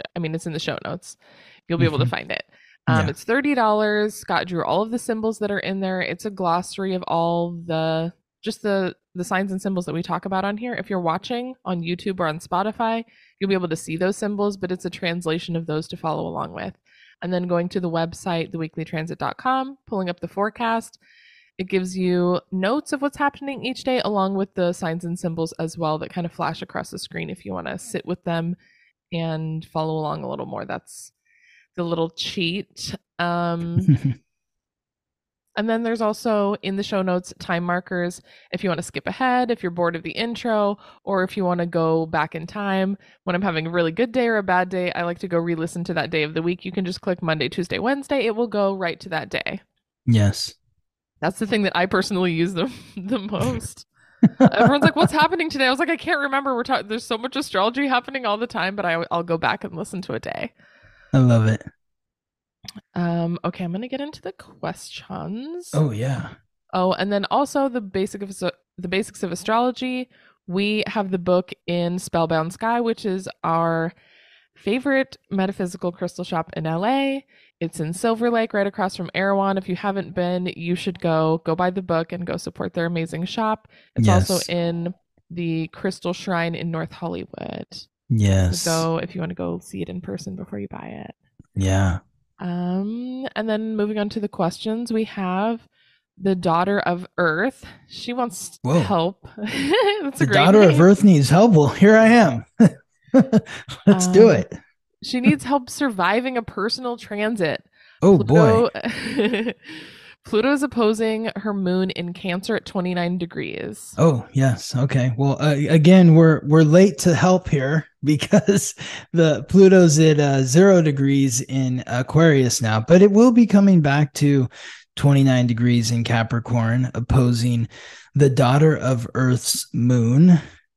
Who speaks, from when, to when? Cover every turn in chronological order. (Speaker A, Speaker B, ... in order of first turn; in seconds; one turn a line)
Speaker A: 0.2-21.0
Speaker B: 1.8-2.1
Speaker B: 2.9-3.1
Speaker A: 21.6-28.6
Speaker A: 29.1-31.1
Speaker A: 31.8-33.9
Speaker B: 33.8-34.1
Speaker A: 35.6-49.6
Speaker B: 50.1-50.5
Speaker A: 51.2-53.9
Speaker B: 54.2-54.7
Speaker A: 54.5-60.5
Speaker B: 61.1-61.6
Speaker A: 63.0-65.8
Speaker B: 65.7-66.3
Speaker A: 66.7-73.9
Speaker A: 74.6-87.9
Speaker B: 84.0-84.5
Speaker B: 88.1-88.9
Speaker A: 88.5-91.2
Speaker B: 91.6-92.0
Speaker A: 92.4-95.7
Speaker A: 96.2-100.9
Speaker B: 98.6-98.9
Speaker B: 100.2-104.6
Speaker A: 103.9-104.5
Speaker A: 105.0-114.0
Speaker B: 108.0-108.7
Speaker B: 114.0-130.4